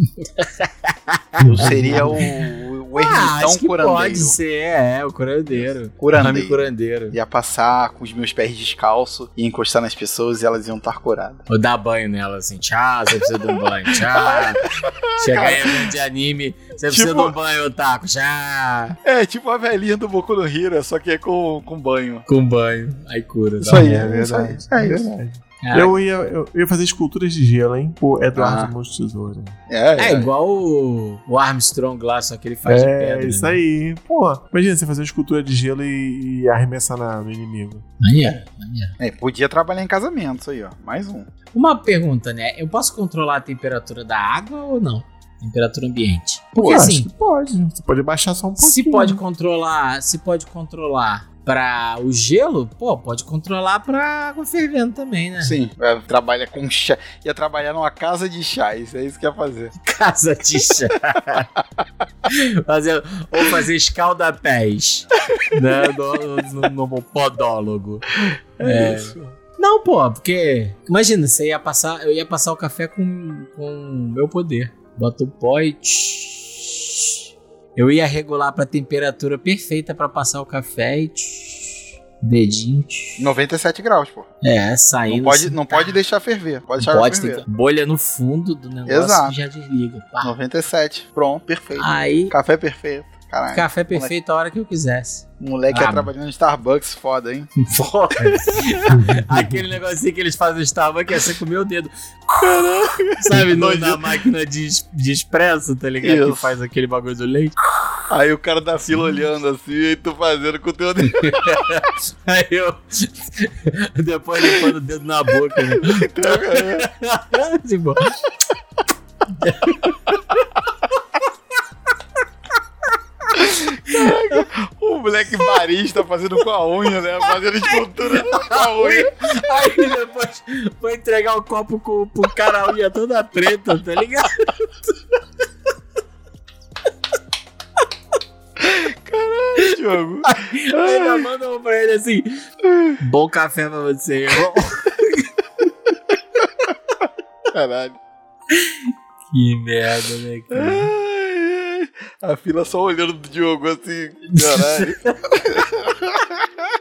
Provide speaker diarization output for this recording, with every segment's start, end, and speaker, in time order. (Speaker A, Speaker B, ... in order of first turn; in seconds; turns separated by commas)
Speaker A: 0.2-7.2, Speaker B: 1.4-2.2, Speaker C: 1.5-4.4, Speaker C: 5.5-11.5, Speaker A: 11.5-14.6, Speaker C: 13.9-15.9, Speaker A: 15.2-19.0, Speaker C: 16.9-17.3, Speaker C: 19.0-22.3, Speaker A: 22.3-24.0, Speaker C: 23.6-25.1, Speaker B: 23.6-29.6, Speaker A: 25.6-25.9, Speaker C: 28.4-28.7, Speaker C: 29.7-30.3, Speaker A: 30.0-33.6, Speaker B: 32.6-37.9, Speaker A: 38.0-39.0, Speaker C: 39.0-41.3, Speaker A: 41.5-47.1, Speaker C: 46.6-46.9, Speaker B: 46.6-49.2, Speaker A: 48.6-55.6, Speaker C: 55.4-59.7, Speaker A: 59.8-61.5, Speaker A: 62.3-68.1, Speaker C: 68.2-69.4, Speaker A: 68.6-77.1, Speaker A: 77.8-83.3, Speaker C: 83.2-84.3, Speaker A: 84.4-86.0, Speaker C: 85.1-87.4, Speaker A: 86.8-90.3, Speaker C: 88.9-89.3, Speaker C: 90.2-94.1, Speaker A: 91.8-92.3, Speaker A: 93.5-96.1, Speaker C: 95.4-97.5, Speaker A: 97.6-107.9, Speaker B: 98.9-99.6, Speaker C: 102.4-104.2, Speaker C: 106.0-106.5, Speaker C: 108.1-111.8, Speaker A: 111.1-118.2, Speaker C: 115.8-116.9, Speaker A: 119.3-120.5, Speaker C: 123.3-129.1, Speaker A: 123.9-124.5, Speaker A: 127.7-134.7, Speaker C: 138.6-141.3, Speaker A: 140.2-142.4, Speaker C: 142.7-143.0, Speaker A: 143.0-145.3, Speaker C: 147.5-148.0, Speaker A: 148.5-148.8, Speaker A: 149.3-150.9, Speaker C: 150.5-156.5, Speaker A: 154.3-155.2